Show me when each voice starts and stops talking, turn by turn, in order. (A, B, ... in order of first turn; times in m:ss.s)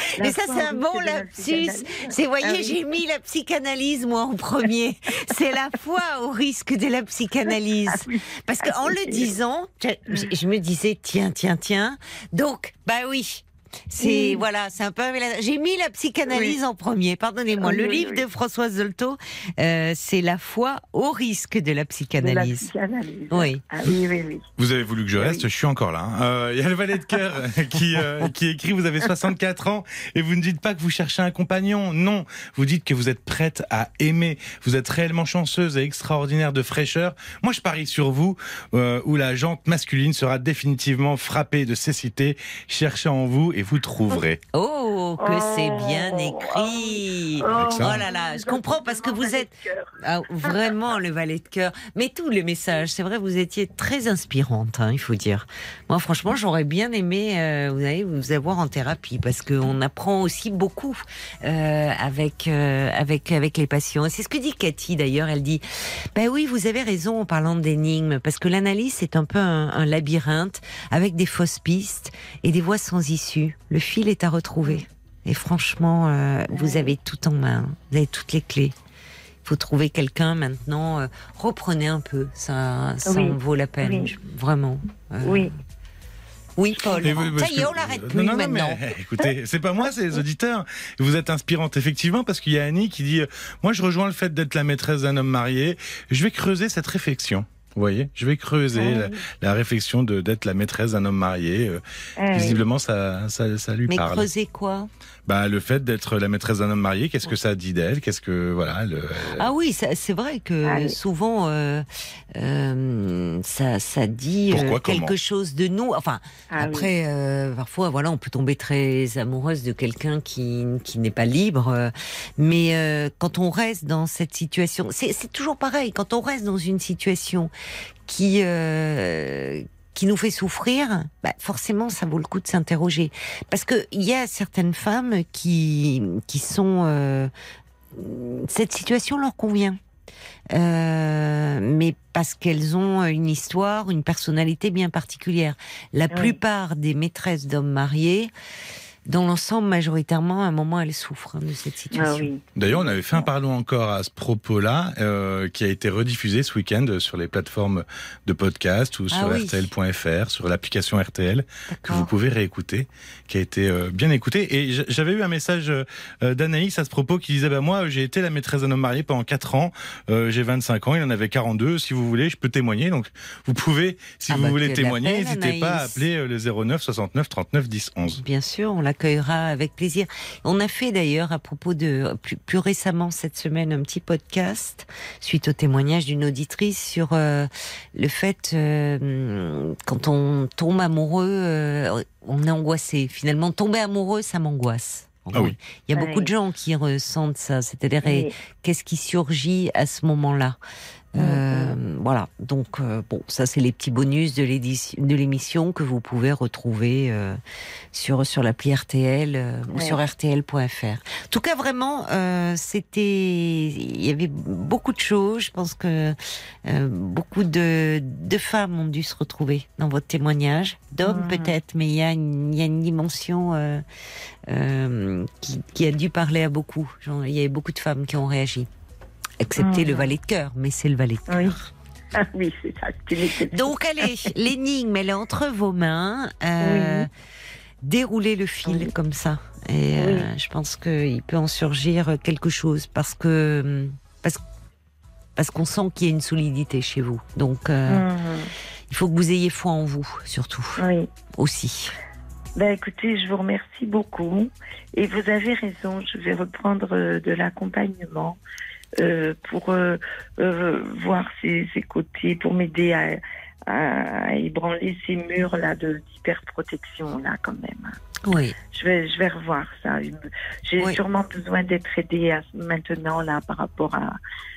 0:00.2-0:22.7 A
0:00.2-0:02.9 B
0:07.9-0:09.3 B
0:14.0-0:14.5 B
0:16.3-0:16.6 B
0:17.6-0:18.2 B
0:22.2-0:24.4 B
0:23.3-0:23.6 A
0:24.6-0:44.4 C
0:25.2-0:25.4 B
0:44.5-1:18.8 A
0:45.2-0:49.9 B
0:47.5-0:48.0 C
0:50.4-0:50.7 B
1:16.5-1:16.9 B
1:19.4-1:25.5 A
1:23.1-1:24.1 B
1:25.2-1:25.5 B
1:26.6-1:28.9 A
1:26.9-1:27.1 B
1:27.0-1:44.3 C
1:38.7-1:39.2 B
1:42.2-1:42.6 B
1:43.9-1:44.9 A
1:45.3-1:49.5 C
1:49.4-2:07.5 A
1:50.6-1:51.0 B
1:54.5-1:55.1 C
1:56.5-1:56.9 B
2:08.1-2:17.3 A
2:17.9-2:19.8 A
2:20.5-2:28.3 A
2:26.1-2:26.4 B
2:29.1-2:32.3 A
2:31.9-2:32.5 B
2:32.6-2:58.2 C
2:39.1-2:39.7 A
2:41.7-2:42.1 A
2:54.3-2:56.0 A
2:58.2-3:20.6 A
3:16.0-3:16.3 B
3:18.0-3:18.3 B
3:21.1-3:27.4 A
3:21.2-3:21.8 B
3:27.9-3:43.8 A
3:29.7-3:30.0 B
3:41.0-3:41.5 B
3:44.5-3:48.7 A
3:49.4-3:51.7 A
3:49.6-3:50.1 B
3:51.3-3:51.6 B
3:52.2-3:54.3 B
3:53.4-3:57.1 A
3:56.6-3:57.1 B
3:57.8-4:04.4 A
3:58.6-3:58.9 B
4:00.0-4:00.3 B
4:05.4-4:08.1 A
4:07.9-4:08.5 B
4:08.9-4:10.8 A
4:10.8-4:11.1 B
4:11.3-4:12.0 A
4:12.6-4:18.4 B
4:19.0-4:28.0 B
4:28.2-4:28.6 A
4:28.7-4:34.2 B